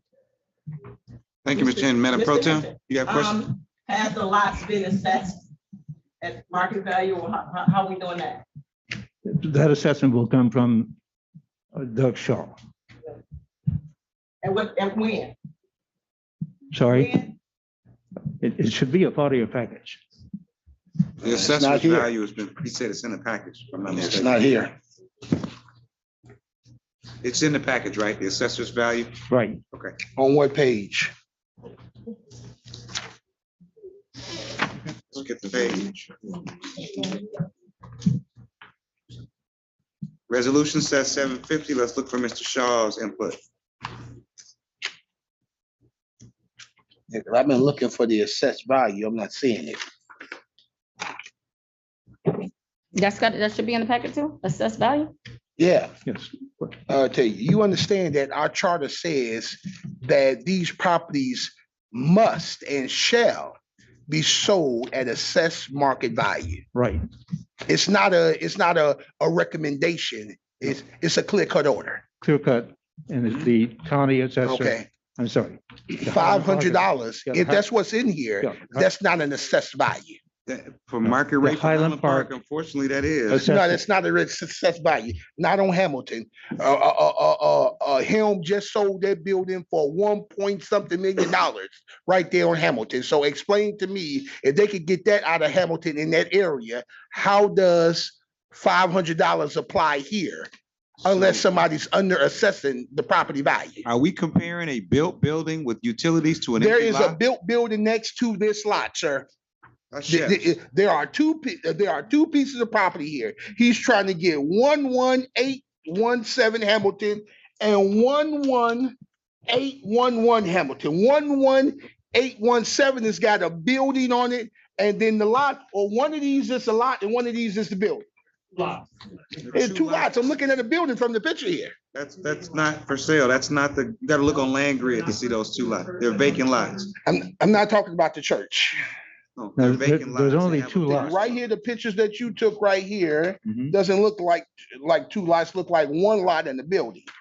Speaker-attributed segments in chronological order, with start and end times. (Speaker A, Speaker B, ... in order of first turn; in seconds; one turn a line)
Speaker A: 1.4-3.4
Speaker B: 1.6-5.4
Speaker B: 6.2-8.4
Speaker C: 9.2-10.9
Speaker C: 11.8-12.6
Speaker B: 14.4-15.3
Speaker C: 16.7-17.2
Speaker B: 16.9-17.4
Speaker C: 18.4-20.0
Speaker A: 21.2-24.4
Speaker D: 21.2-22.1
Speaker D: 23.9-24.7
Speaker A: 27.2-29.1
Speaker C: 29.3-29.6
Speaker A: 29.7-30.0
Speaker D: 30.2-31.1
Speaker A: 35.1-36.4
Speaker A: 40.3-43.4
Speaker D: 47.1-49.8
Speaker E: 53.0-55.1
Speaker D: 55.6-55.9
Speaker C: 56.1-56.7
Speaker D: 56.9-63.6
Speaker D: 64.1-66.6
Speaker C: 66.7-67.0
Speaker D: 67.7-72.0
Speaker C: 72.2-77.6
Speaker D: 74.4-74.9
Speaker D: 76.0-80.2
Speaker C: 78.4-78.9
Speaker A: 80.5-83.5
Speaker C: 81.1-82.3
Speaker C: 83.3-83.8
Speaker D: 83.5-100.5
Speaker D: 101.0-103.9
Speaker A: 101.1-101.5
Speaker A: 103.8-107.2
Speaker D: 106.6-109.3
Speaker A: 109.9-110.5
Speaker D: 110.1-118.9
Speaker D: 119.5-128.1
Speaker A: 129.5-130.2
Speaker D: 129.6-131.8
Speaker A: 131.9-136.9
Speaker D: 137.1-138.8
Speaker A: 139.4-141.4
Speaker C: 139.6-141.2
Speaker D: 140.9-147.1